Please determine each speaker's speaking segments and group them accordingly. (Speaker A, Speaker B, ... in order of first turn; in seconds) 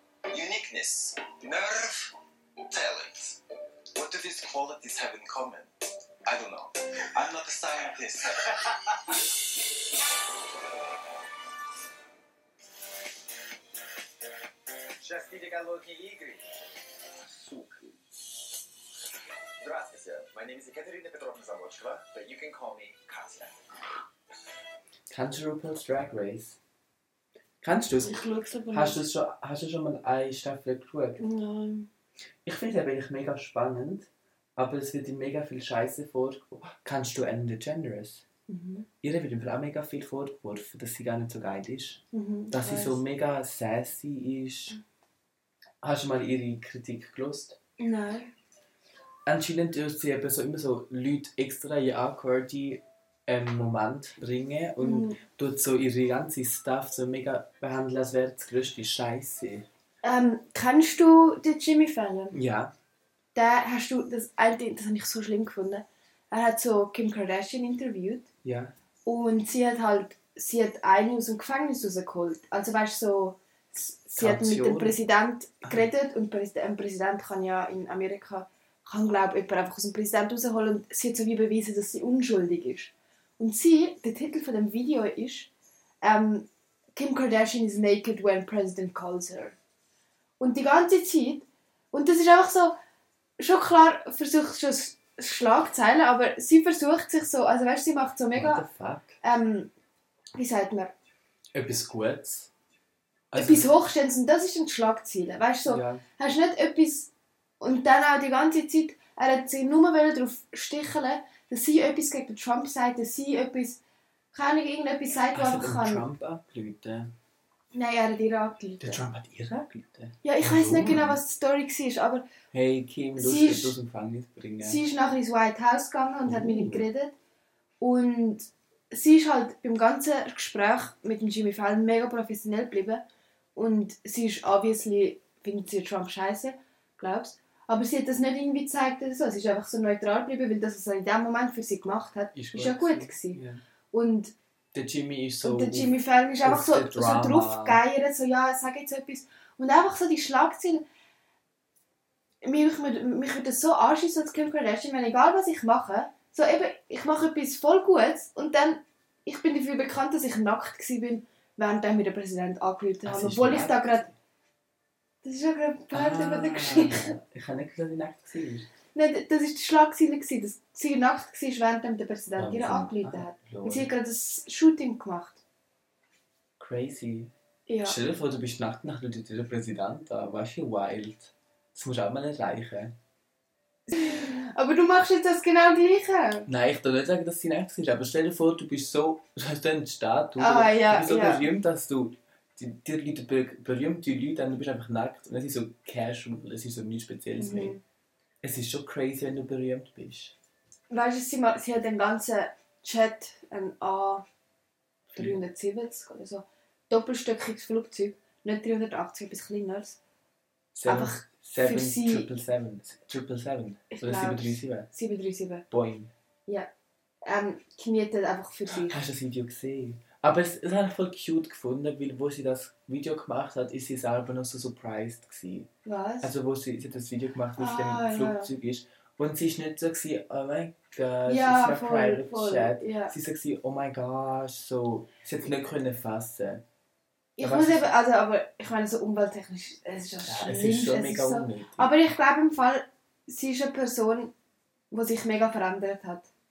Speaker A: 0.3-3.4, 3.9-5.7, 6.2-9.3, 15.0-16.6, 17.2-18.0, 19.6-23.6
Speaker B: 25.1-26.6, 27.6-28.2, 28.7-31.2, 32.4-38.2, 39.0-44.8, 45.8-47.6, 49.2-59.7, 62.3-62.7, 68.4-68.8, 74.1-75.0, 98.3-99.2, 101.5-102.5, 103.3-103.7, 105.7-106.0, 115.3-117.1, 118.8-121.2, 122.5-124.8, 126.2-126.8, 142.3-143.6, 144.7-147.8, 163.0-164.1, 165.9-168.7, 172.4-173.9, 176.6-177.3, 177.8-183.0, 186.5-197.8, 198.4-200.4, 205.1-205.4, 210.7-214.9, 215.7-216.1, 218.7-225.7, 226.2-236.6, 237.4-237.8, 240.2-241.9
Speaker C: 28.0-29.0, 31.2-31.9, 38.5-38.9, 42.1-43.0, 47.8-48.3, 54.8-55.2, 60.0-62.4, 63.4-68.3, 69.0-85.5, 86.0-89.5, 90.4-92.8, 93.4-98.6, 99.2-99.7, 100.4-100.9, 103.3-113.8, 114.3-116.0, 117.7-119.0, 120.2-122.3, 123.2-123.8, 124.6-127.2, 127.8-133.0, 133.5-143.4, 143.9-144.3, 145.4-150.8, 152.4-164.0, 165.2-167.2, 168.9-175.4, 177.7-178.0, 183.9-186.5, 190.4-191.5, 197.4-197.8, 200.9-204.2, 205.2-210.0, 210.9-212.3, 213.9-215.6, 217.2-219.0, 225.8-226.3, 227.6-228.5, 231.3-233.1, 237.4-244.3, 244.9-246.3